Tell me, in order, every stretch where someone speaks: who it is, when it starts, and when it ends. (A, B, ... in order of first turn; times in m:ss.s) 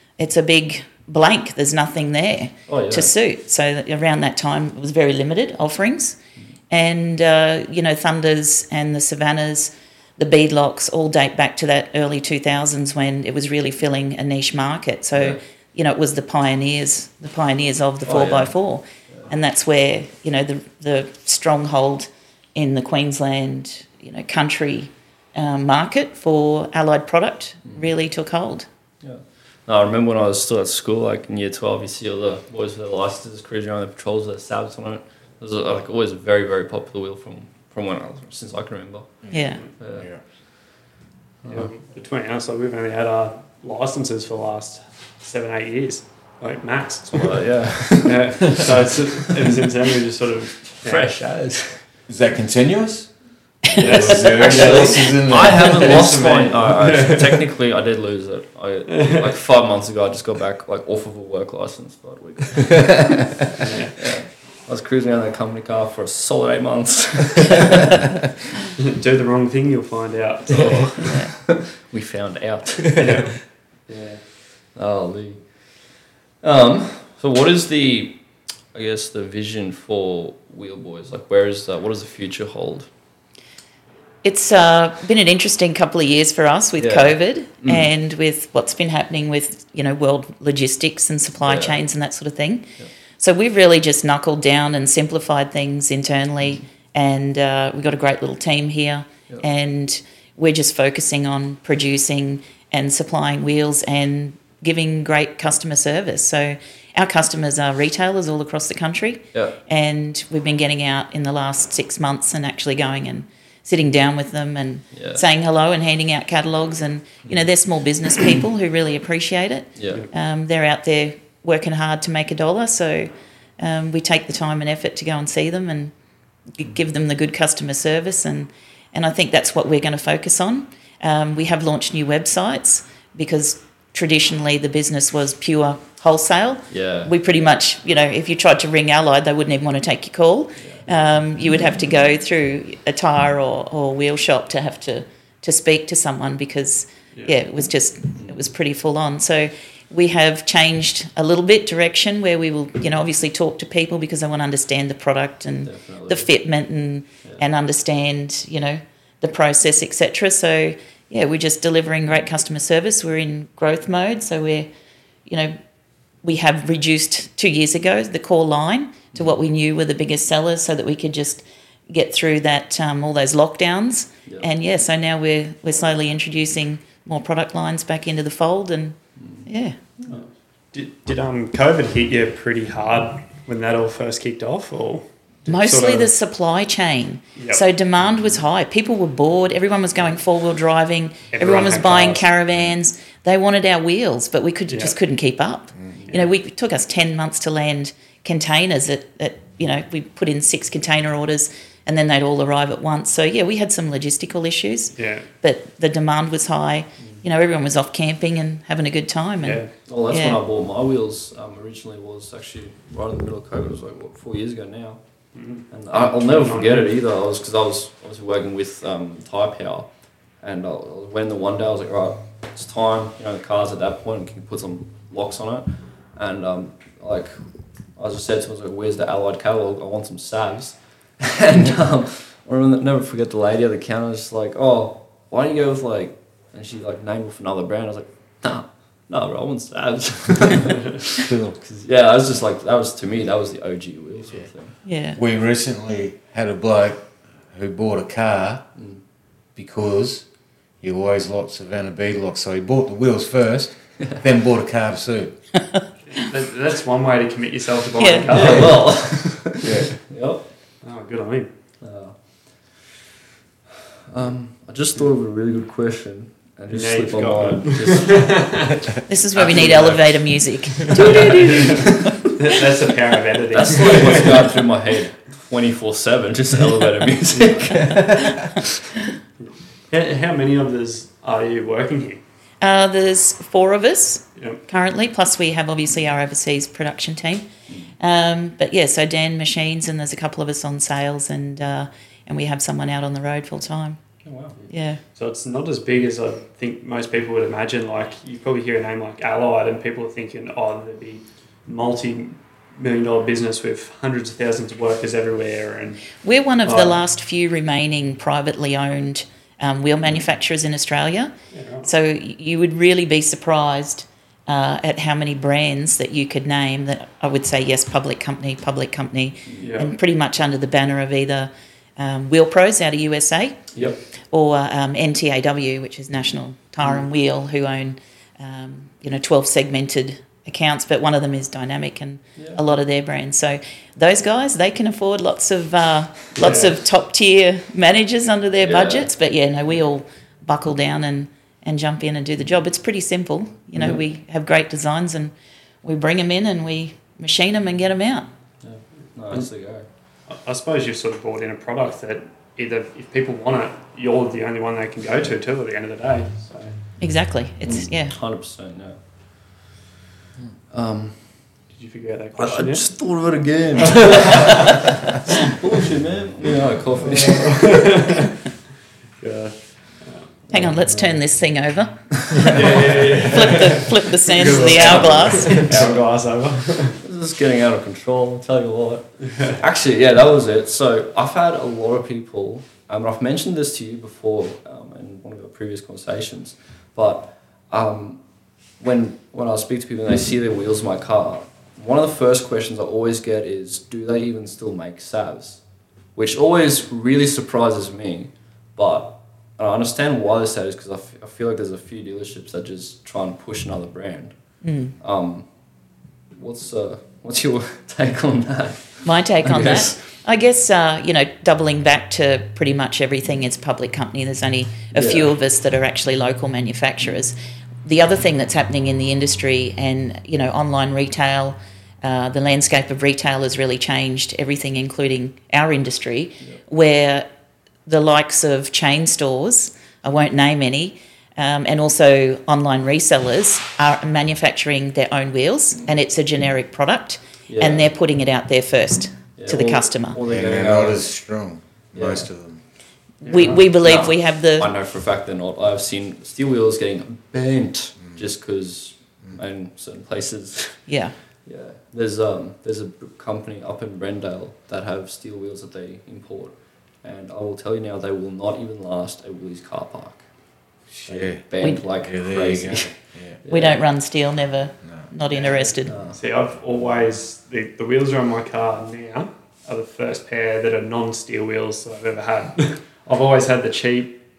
0:00.2-0:06.2 A
0:02.7-0:03.1 B
0:06.7-0:28.6 A
0:15.1-0:15.4 B
0:18.0-0:18.5 B
0:29.0-0:39.2 B
0:39.2-0:40.2 C
0:39.3-0:39.6 A
0:39.8-0:40.1 B
0:41.4-0:41.7 B
0:41.5-0:47.4 D
0:47.1-0:48.7 B
0:48.0-0:51.1 D
0:50.8-0:51.8 B
0:52.1-0:53.1 C
0:53.6-0:56.5 C
0:53.7-0:55.1 A
0:53.8-0:55.0 D
0:54.2-1:08.2 B
0:55.7-0:57.4 D
0:58.9-0:59.3 D
1:03.6-1:04.0 D
1:08.8-1:11.1 D
1:10.5-1:13.3 B
1:11.0-1:11.3 A
1:13.0-1:14.2 D
1:14.7-1:15.4 B
1:16.4-1:18.2 B
1:18.7-1:22.9 B
1:24.2-2:05.9 A
1:26.8-1:27.9 B
1:31.4-1:31.8 B
1:54.9-1:55.2 B
1:59.8-2:00.0 B
2:06.5-2:44.7 A
2:16.7-2:17.1 B
2:35.6-2:36.3 B
2:45.3-2:45.6 A
2:46.2-2:59.8 A
2:59.2-2:59.5 B
3:00.1-3:06.1 D
3:05.5-3:30.4 A
3:07.4-3:07.6 D
3:11.3-3:12.3 D
3:14.7-3:15.0 D
3:25.0-3:25.3 D
3:29.4-3:29.7 D
3:29.8-3:35.0 B
3:35.3-3:36.9 D
3:35.7-3:39.9 B
3:40.4-3:47.3 B
3:48.0-4:04.8 B
4:01.1-4:01.6 C
4:04.8-4:05.2 A
4:05.1-4:08.7 C
4:09.6-4:10.2 C
4:10.8-4:15.3 C
4:16.1-4:18.8 D
4:18.0-4:18.5 A
4:18.3-4:20.4 B
4:19.6-4:19.9 C
4:20.8-4:21.5 D
4:21.8-4:22.2 B
4:24.1-4:28.7 B
4:26.7-4:28.8 D
4:29.1-4:32.3 A
4:29.4-4:30.0 B
4:29.4-4:30.1 D
4:30.8-4:34.5 D
4:31.0-4:32.1 B
4:33.5-4:38.8 B
4:37.3-4:38.0 D
4:39.9-4:42.2 D
4:42.6-4:47.4 A
4:48.0-4:54.0 A
4:54.2-4:54.6 B
4:54.7-4:55.0 A
4:55.1-5:06.0 D
5:06.2-5:11.3 A
5:06.6-5:07.0 D
5:11.5-5:11.9 D
5:11.8-5:45.3 A
5:19.6-5:19.9 D
5:23.7-5:24.0 B
5:36.3-5:36.7 D
5:38.6-5:39.1 B
5:45.8-5:48.3 A
5:48.6-5:49.8 B
5:50.3-5:56.7 D
5:57.0-5:58.1 A
5:57.6-5:59.6 B
6:00.7-6:01.5 B
6:01.7-6:02.8 D
6:02.4-6:08.0 B
6:03.8-6:04.8 D
6:07.0-6:08.4 D
6:09.2-6:10.4 D
6:10.5-6:10.9 B
6:10.5-6:15.7 A
6:12.3-6:17.0 D
6:12.4-6:13.3 B
6:14.6-6:16.0 B
6:17.0-6:28.2 B
6:19.2-6:19.6 D
6:28.8-6:35.6 B
6:36.1-6:44.3 B
6:44.6-6:44.9 A
6:45.0-6:45.4 B
6:46.4-6:50.0 B
6:49.0-7:07.3 A
6:54.9-6:55.3 B
7:07.8-7:20.2 A
7:17.5-7:17.9 B
7:19.4-7:21.0 B
7:20.2-7:22.6 C
7:21.9-7:22.3 B
7:23.2-7:23.6 D
7:23.2-7:24.7 A
7:23.5-7:30.9 B
7:30.9-7:31.1 A
7:31.4-7:40.2 B
7:40.9-7:43.4 C
7:41.0-7:43.8 B
7:43.5-7:46.0 A
7:44.8-7:45.1 C
7:45.8-7:46.2 B
7:46.1-7:54.2 D